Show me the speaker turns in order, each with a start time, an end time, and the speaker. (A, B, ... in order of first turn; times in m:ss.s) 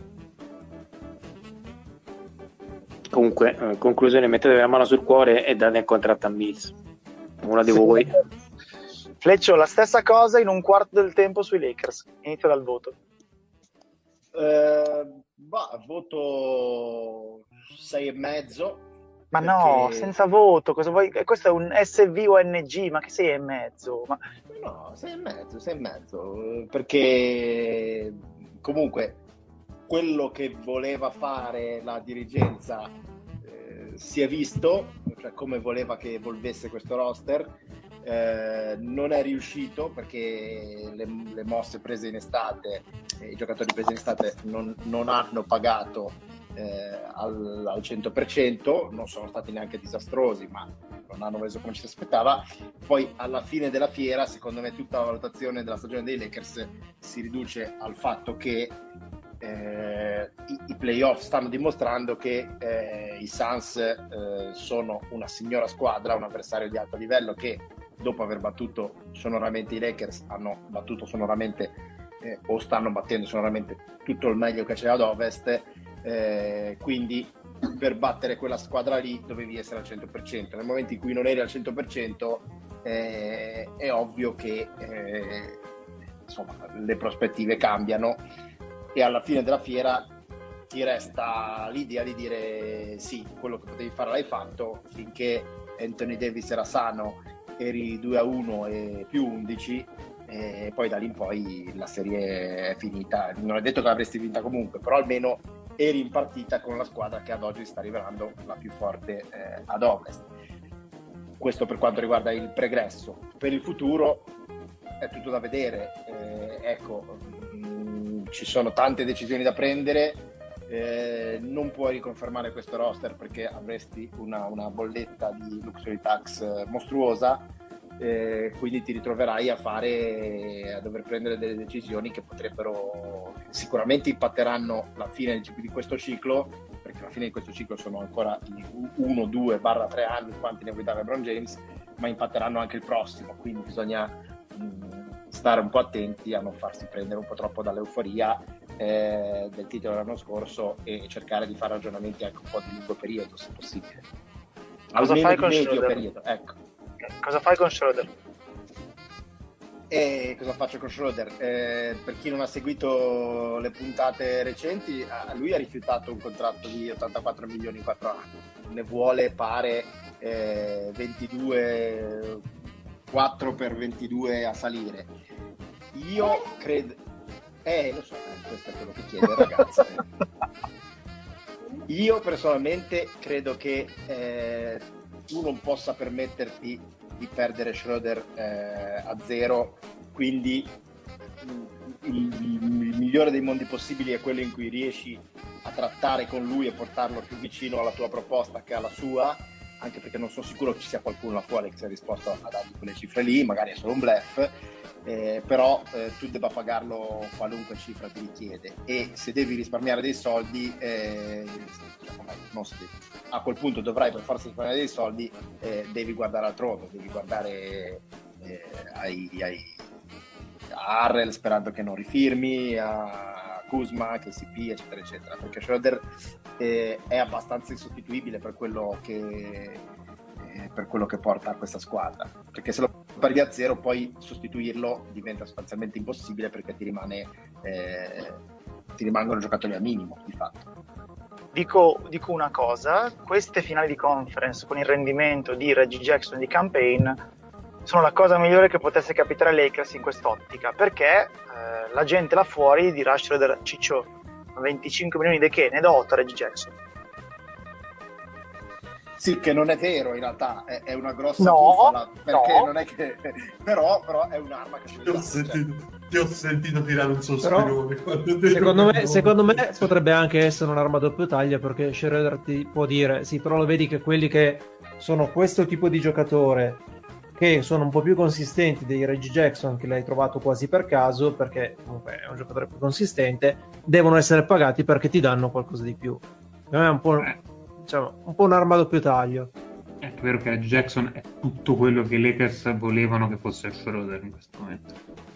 0:03.1-0:06.8 A
0:07.4-0:08.2 A
0:07.8-0:08.2 B
0:09.2-0:13.0 B
0:14.3-0:18.8 C
0:19.3-0:24.2 B
0:19.4-0:20.1 C
0:24.5-0:29.2 C
0:29.9-0:58.8 C
0:59.4-1:25.6 C
1:26.3-1:28.2 C
1:28.9-1:30.1 C
1:30.7-1:50.3 C
1:51.4-1:54.3 C
1:55.0-2:07.5 C
2:08.0-2:34.0 C
2:34.9-2:36.6 C
2:35.0-2:36.0 B
2:37.0-2:38.1 B
2:39.9-2:52.4 C
2:53.1-2:55.1 C
2:55.9-2:57.0 C
2:57.6-3:00.1 C
3:01.9-3:10.8 C
3:11.4-3:39.8 C
3:40.7-3:49.8 C
3:50.4-3:58.4 C
3:59.0-4:00.7 C
4:01.5-4:07.2 B
4:07.9-4:16.7 B
4:19.2-4:25.6 C
4:21.4-4:22.7 B
4:25.0-4:29.9 D
4:27.4-4:27.8 E
4:28.5-4:36.8 E
4:37.4-4:49.5 E
4:50.0-4:55.0 F